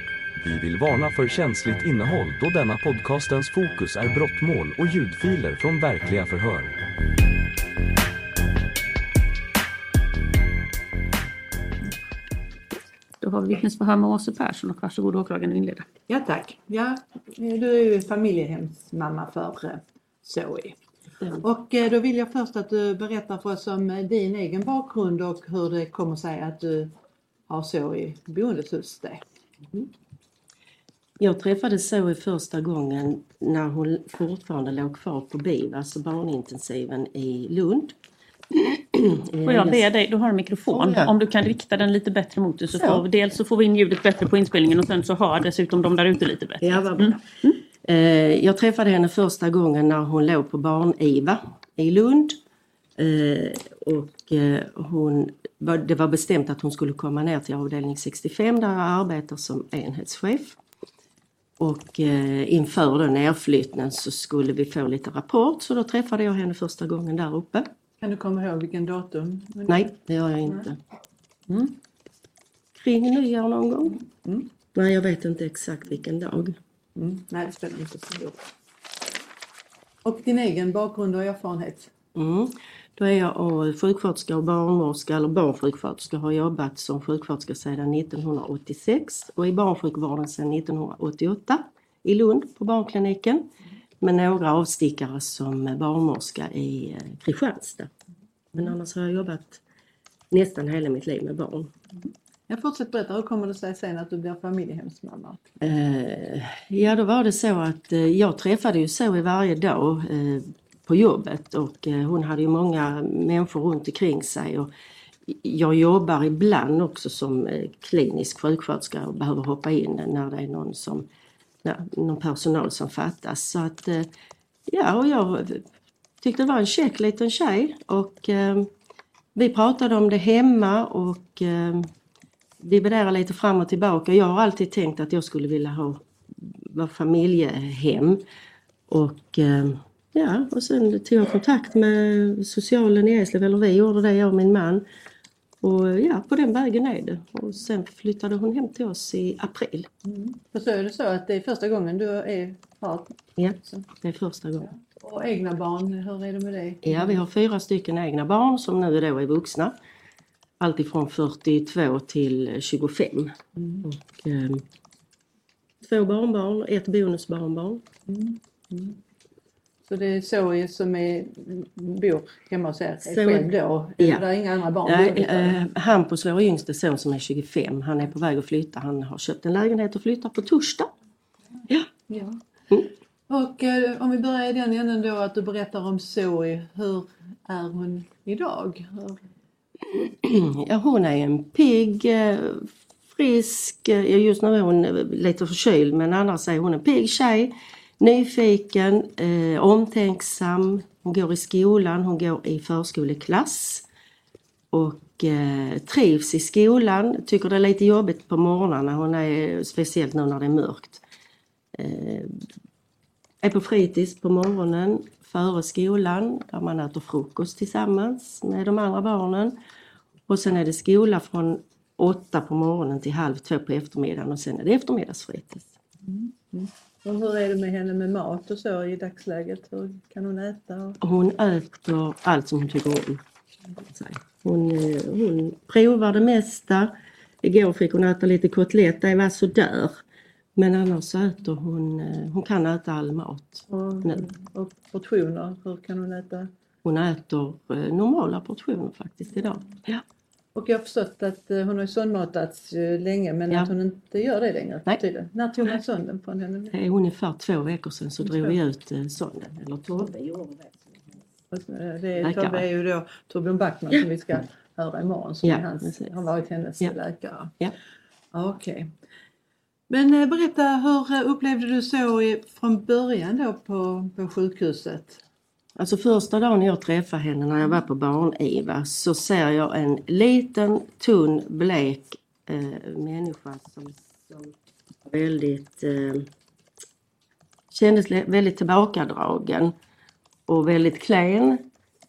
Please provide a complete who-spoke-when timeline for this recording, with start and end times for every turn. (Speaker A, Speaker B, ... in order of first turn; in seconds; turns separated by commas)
Speaker A: 0.4-6.8, Speaker B: 13.2-15.9, Speaker C: 16.1-20.8, Speaker C: 21.4-26.9, Speaker C: 27.5-29.2, Speaker D: 31.2-38.0, Speaker D: 38.5-39.9, Speaker B: 39.5-47.6, Speaker D: 40.7-41.1, Speaker D: 42.7-43.0, Speaker D: 46.6-47.3, Speaker D: 47.8-52.4, Speaker D: 53.0-60.6, Speaker D: 61.6-67.7, Speaker C: 68.0-69.9, Speaker D: 69.7-70.8, Speaker C: 71.5-71.8, Speaker D: 72.7-74.0, Speaker D: 74.7-76.6, Speaker C: 77.0-78.4, Speaker C: 80.0-81.9, Speaker D: 82.2-93.5, Speaker D: 94.0-97.9, Speaker D: 98.5-99.6, Speaker D: 100.3-101.8, Speaker C: 102.5-105.5, Speaker D: 105.6-114.7, Speaker D: 115.3-121.1, Speaker D: 121.6-124.1, Speaker D: 124.7-125.7, Speaker D: 126.2-128.7, Speaker D: 129.3-131.9, Speaker D: 132.6-138.2, Speaker D: 138.9-144.8, Speaker D: 145.6-149.9, Speaker C: 150.1-153.2, Speaker D: 153.4-154.7, Speaker C: 154.7-157.2, Speaker D: 156.8-159.8, Speaker D: 160.6-164.7, Speaker C: 163.6-163.8, Speaker D: 165.8-167.8, Speaker C: 168.1-169.0, Speaker C: 169.9-175.6, Speaker D: 173.1-174.2, Speaker D: 174.8-180.9, Speaker C: 182.1-182.4, Speaker C: 183.3-189.2, Speaker D: 189.9-203.9, Speaker D: 204.7-211.0, Speaker D: 211.8-212.4, Speaker D: 213.4-219.6, Speaker D: 220.3-225.7, Speaker C: 226.0-231.0, Speaker D: 231.0-233.2, Speaker D: 233.8-240.0, Speaker D: 240.6-244.2, Speaker C: 243.7-246.5, Speaker D: 246.8-250.0, Speaker C: 250.6-256.7, Speaker D: 256.7-260.7, Speaker C: 258.2-258.6, Speaker C: 261.5-267.6, Speaker D: 262.2-262.6, Speaker D: 265.4-266.1, Speaker C: 268.3-268.9, Speaker C: 269.9-275.2, Speaker D: 275.8-286.3, Speaker D: 287.7-289.7, Speaker D: 290.5-291.7